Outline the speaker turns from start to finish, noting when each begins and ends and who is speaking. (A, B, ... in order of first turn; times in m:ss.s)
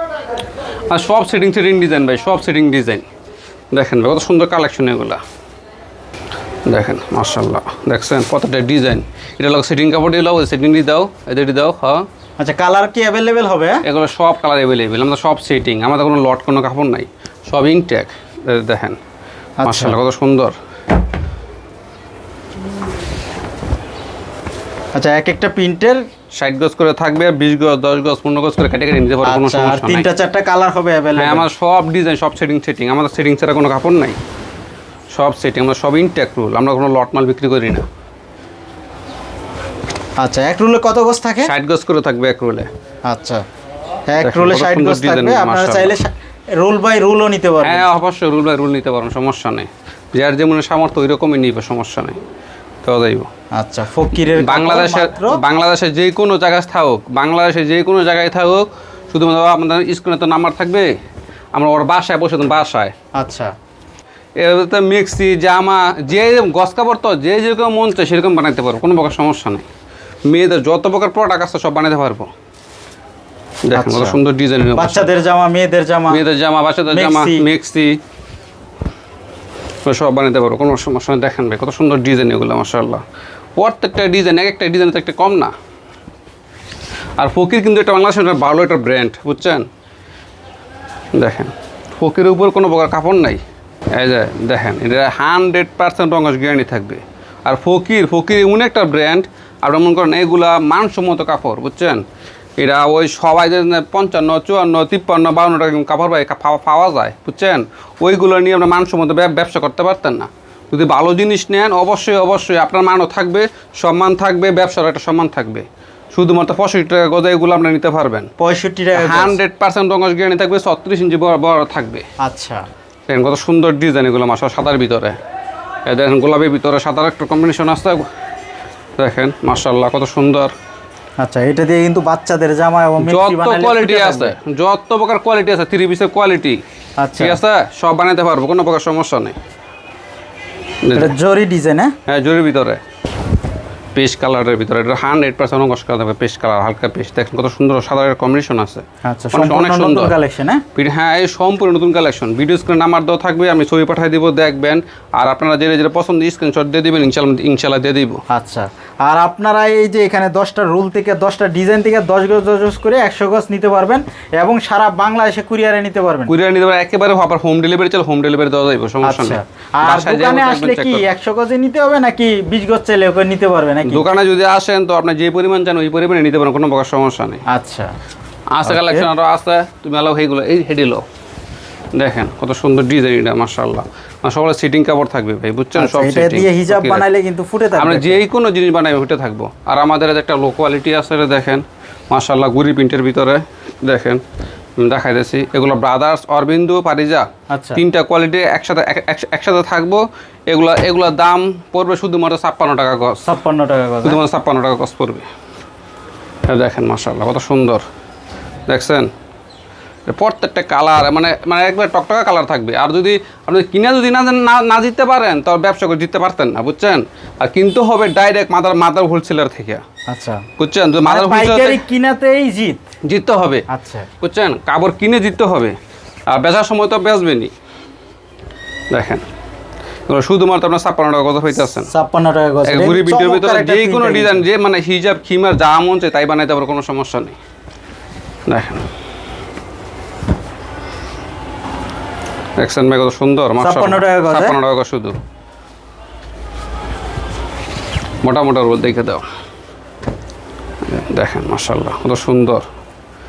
0:00.9-0:03.1 A
0:03.7-0:05.2 A
0:06.7-0:12.1 A
0:12.4-0:13.8 B
0:13.8-0:19.0 A
0:19.6-0:20.0 B
0:19.6-0:20.6 A
0:25.0-0:26.0 B
0:26.4-0:30.1 A
0:29.2-0:31.5 B
0:31.2-0:34.2 A
0:35.1-0:37.9 A
0:40.2-0:41.5 B
0:41.4-0:42.7 A
0:43.1-0:43.4 B
0:44.1-0:47.9 B
0:44.2-0:46.0 A
0:47.6-0:52.2 A
0:52.8-0:53.3 A
0:53.6-0:55.4 B
0:54.3-1:00.9 A
1:01.5-1:02.9 A
1:03.2-1:03.5 B
1:04.4-1:09.7 A
1:10.3-1:12.3 A
1:13.7-1:15.1 A
1:13.7-1:14.2 B
1:14.8-1:16.2 B
1:16.1-1:18.0 A
1:16.9-1:17.4 B
1:19.9-1:23.0 A
1:23.6-1:25.5 A
1:27.2-1:29.7 A
1:31.2-1:33.4 A
1:33.9-1:42.0 A
1:42.6-1:58.3 A
1:58.4-1:59.4 B
1:59.0-2:02.0 A
2:02.2-2:02.6 B
2:03.1-2:05.2 A
2:05.9-2:08.1 A
2:09.0-2:10.5 A
2:11.2-2:14.4 B
2:13.0-2:16.6 A
2:17.0-2:17.4 B
2:17.2-2:19.4 A
2:20.8-2:21.1 A
2:20.9-2:21.9 B
2:22.1-2:22.8 A
2:24.0-2:30.2 A
2:29.0-2:30.6 B
2:30.8-2:38.2 A
2:38.3-2:46.3 B
2:46.3-2:51.1 A
2:49.0-2:54.1 B
2:53.9-2:57.4 A
2:57.5-2:57.9 B
2:58.5-3:01.0 A
2:58.6-2:59.1 B
3:02.0-3:07.0 A
3:05.8-3:08.2 B
3:07.8-3:14.2 A
3:14.8-3:23.3 A
3:17.5-3:17.8 B
3:23.3-3:24.2 B
3:24.0-3:25.3 A
3:26.5-3:27.8 A
3:28.7-3:29.1 A
3:30.1-3:39.8 A
3:40.1-3:40.4 B
3:40.6-3:41.8 A
3:41.0-3:42.8 B
3:43.0-3:43.6 A
3:43.7-3:44.1 B
3:44.2-3:45.8 A
3:46.3-3:47.5 A
3:48.9-3:49.2 A
3:50.1-3:51.9 A
3:51.9-3:54.4 B
3:52.6-3:57.4 A
3:58.5-3:58.8 A
4:02.6-4:05.2 A
4:03.6-4:04.6 B
4:08.2-4:09.2 A
4:10.9-4:12.6 A